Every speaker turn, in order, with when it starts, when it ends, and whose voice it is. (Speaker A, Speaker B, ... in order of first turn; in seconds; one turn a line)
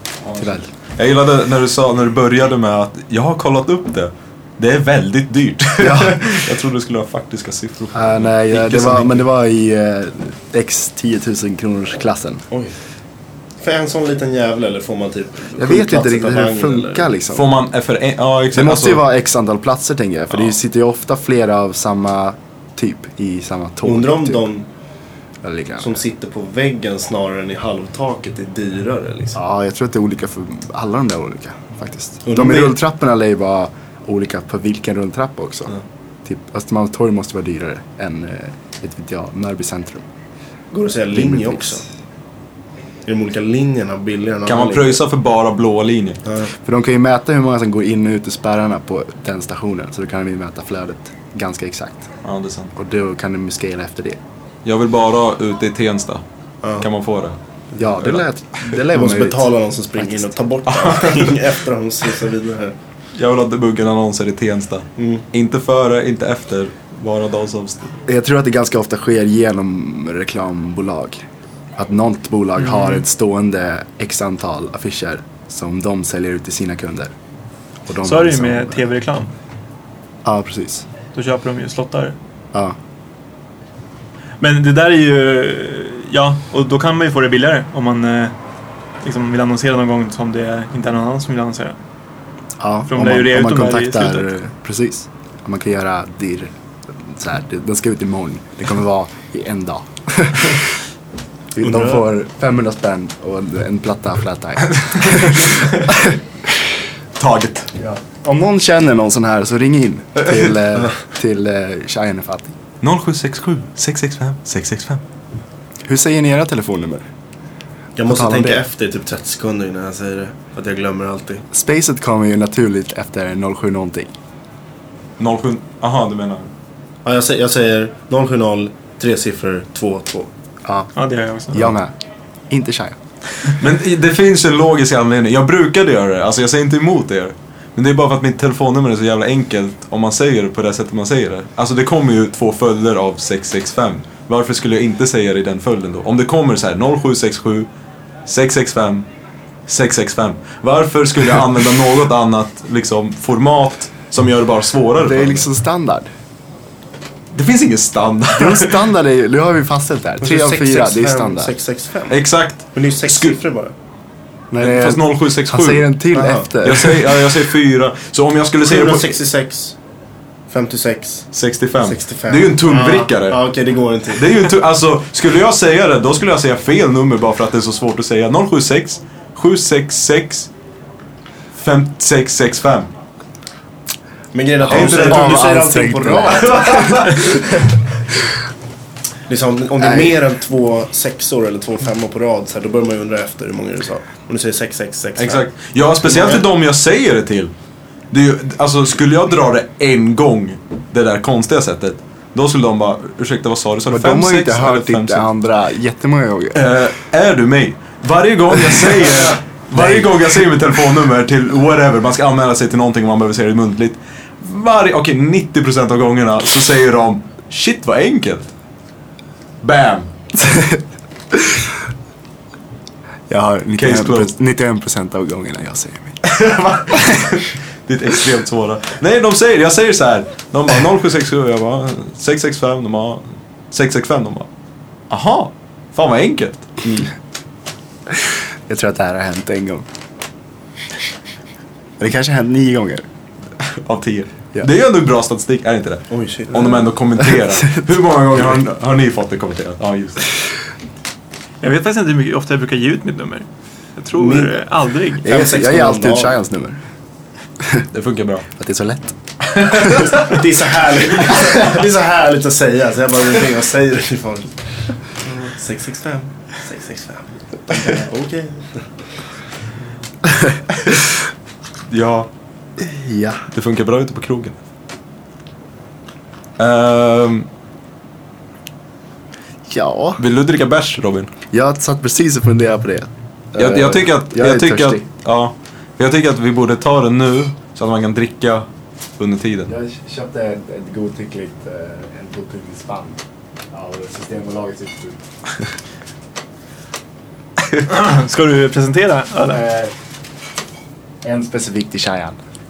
Speaker A: 0.2-9.3
Speaker B: 0.4-0.7
Speaker B: 5.8-6.4
Speaker B: 7.9-12.4
Speaker C: 13.6-17.1
Speaker B: 15.6-17.5
Speaker A: 17.3-19.0
Speaker B: 18.5-24.4
Speaker C: 23.8-24.6
Speaker B: 25.4-26.0
Speaker C: 25.8-29.4
Speaker B: 29.3-40.0
Speaker C: 32.2-32.8
Speaker C: 40.7-41.8
Speaker B: 41.1-41.8
Speaker C: 43.0-45.0
Speaker A: 44.5-46.2
Speaker B: 46.6-52.1
Speaker A: 52.2-52.7
Speaker B: 52.7-54.2
Speaker A: 54.6-56.2
Speaker A: 56.8-57.4
Speaker B: 57.7-60.3
Speaker C: 58.8-62.7
Speaker A: 60.7-61.3
Speaker A: 63.1-68.0
Speaker C: 65.0-65.2
Speaker B: 68.1-71.2
Speaker B: 71.8-77.1
Speaker B: 77.9-78.8
Speaker D: 78.0-79.3
Speaker B: 80.2-80.8
Speaker D: 81.1-82.2
Speaker D: 84.4-88.3
Speaker D: 89.0-91.8
Speaker B: 92.6-96.5
Speaker D: 92.9-94.3
Speaker B: 97.0-100.6
Speaker B: 101.5-106.2
Speaker C: 101.6-102.1
Speaker A: 107.2-107.7
Speaker B: 107.8-112.5
Speaker A: 112.8-115.0
Speaker B: 115.8-117.0
Speaker C: 118.0-121.4
Speaker B: 118.1-118.6
Speaker B: 121.5-124.1
Speaker A: 125.2-126.5
Speaker C: 127.0-130.3
Speaker B: 130.6-130.9
Speaker D: 130.9-131.8
Speaker B: 131.5-131.9
Speaker B: 132.5-133.0
Speaker A: 133.5-147.7
Speaker A: 148.2-149.1
Speaker A: 149.7-155.4
Speaker B: 155.0-156.1
Speaker A: 157.3-158.9
Speaker B: 158.4-161.5
Speaker C: 160.2-163.7
Speaker A: 162.1-163.4
Speaker B: 164.5-167.1
Speaker A: 164.6-165.9
Speaker C: 166.1-166.8
Speaker A: 166.6-169.2
Speaker C: 168.6-169.7
Speaker C: 170.5-171.3
Speaker A: 171.3-173.4
Speaker C: 171.8-174.3
Speaker A: 174.1-180.5
Speaker A: 181.5-182.9
Speaker C: 184.3-187.5
Speaker A: 184.7-185.4
Speaker B: 184.7-187.2
Speaker A: 186.5-187.4
Speaker C: 189.3-195.5
Speaker A: 195.2-197.5
Speaker C: 196.0-196.4
Speaker A: 198.1-205.3
Speaker B: 203.9-206.6
Speaker A: 206.5-218.5
Speaker B: 209.8-210.1
Speaker A: 219.6-220.1
Speaker B: 220.4-220.8
Speaker B: 221.3-221.6
Speaker B: 223.3-226.2
Speaker A: 223.8-224.3
Speaker A: 226.2-234.5
Speaker A: 235.1-236.9
Speaker B: 238.7-239.8
Speaker B: 242.0-243.1
Speaker A: 243.6-250.2
Speaker C: 246.1-246.8
Speaker D: 251.6-255.2
Speaker C: 254.1-254.6
Speaker C: 255.2-256.4
Speaker B: 255.2-256.8
Speaker A: 257.9-258.4
Speaker B: 258.5-260.1
Speaker A: 259.5-260.4
Speaker C: 260.1-264.5
Speaker C: 265.2-268.9
Speaker A: 271.9-272.3
Speaker B: 272.8-273.4
Speaker A: 273.5-274.6
Speaker A: 276.6-277.5
Speaker B: 279.7-280.2
Speaker A: 280.2-281.3
Speaker B: 281.5-285.0
Speaker A: 283.6-289.7
Speaker B: 289.7-293.2
Speaker B: 293.7-295.2
Speaker D: 297.8-299.6
Speaker B: 299.5-299.9
Speaker B: 301.2-302.4